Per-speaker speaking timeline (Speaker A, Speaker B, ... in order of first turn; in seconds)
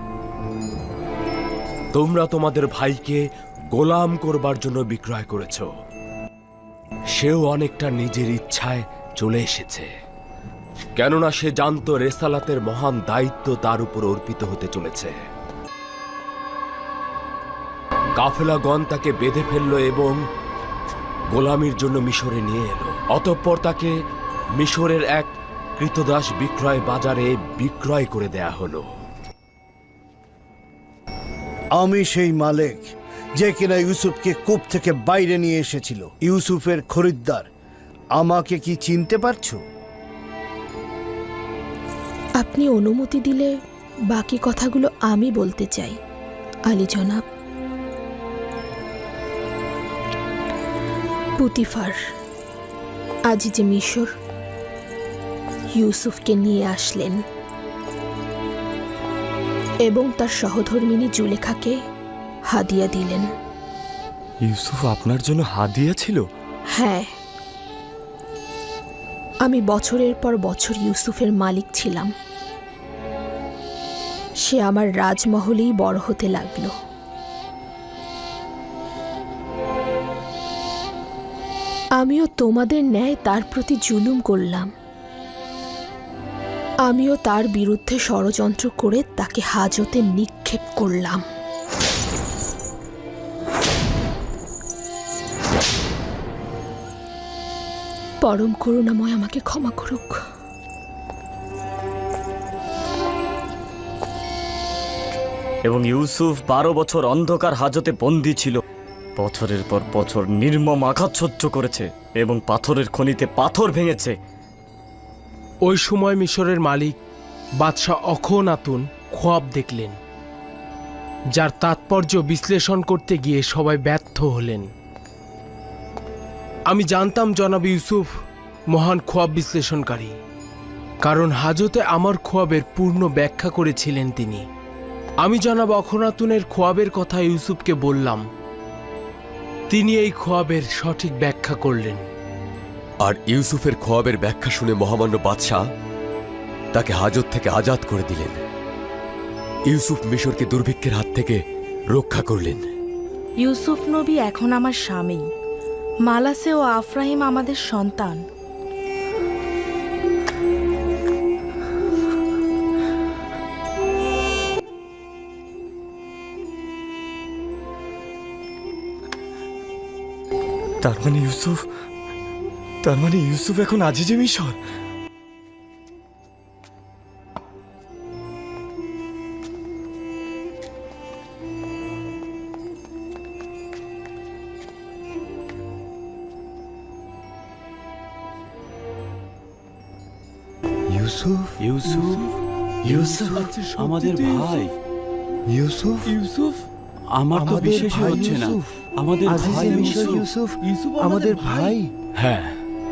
Speaker A: 1.9-3.2, 3.7-5.7, 7.2-9.9, 11.0-15.2, 18.2-20.2, 21.3-23.9, 24.6-28.8, 202.2-202.5
Speaker B: 31.7-37.5, 38.1-39.6, 190.9-191.5, 192.9-193.4, 195.5-196.1, 197.5-198.7, 199.3-200.6, 201.2-201.9
Speaker C: 42.4-43.5, 44.1-46.0, 46.7-47.2, 51.4-52.0, 53.3-54.1, 55.8-57.2, 59.9-61.8, 62.5-63.3, 66.8-67.1, 69.4-72.1, 74.5-76.7, 82.0-84.7, 86.9-91.2, 98.2-100.2
Speaker D: 64.4-66.2, 105.7-108.6, 109.2-114.1, 170.8-171.6, 172.8-174.6
Speaker E: 115.7-116.9, 117.6-120.0, 121.4-124.7, 126.7-128.1, 128.7-130.2, 131.0-134.4, 135.2-138.2, 139.7-142.0, 197.3-198.0, 199.3-200.2
Speaker F: 143.0-145.6, 146.7-148.4, 149.7-151.4, 151.9-152.7
Speaker G: 153.4-155.3, 156.1-158.2
Speaker H: 191.6-192.3, 192.8-194.7, 197.1-200.2, 201.0-201.3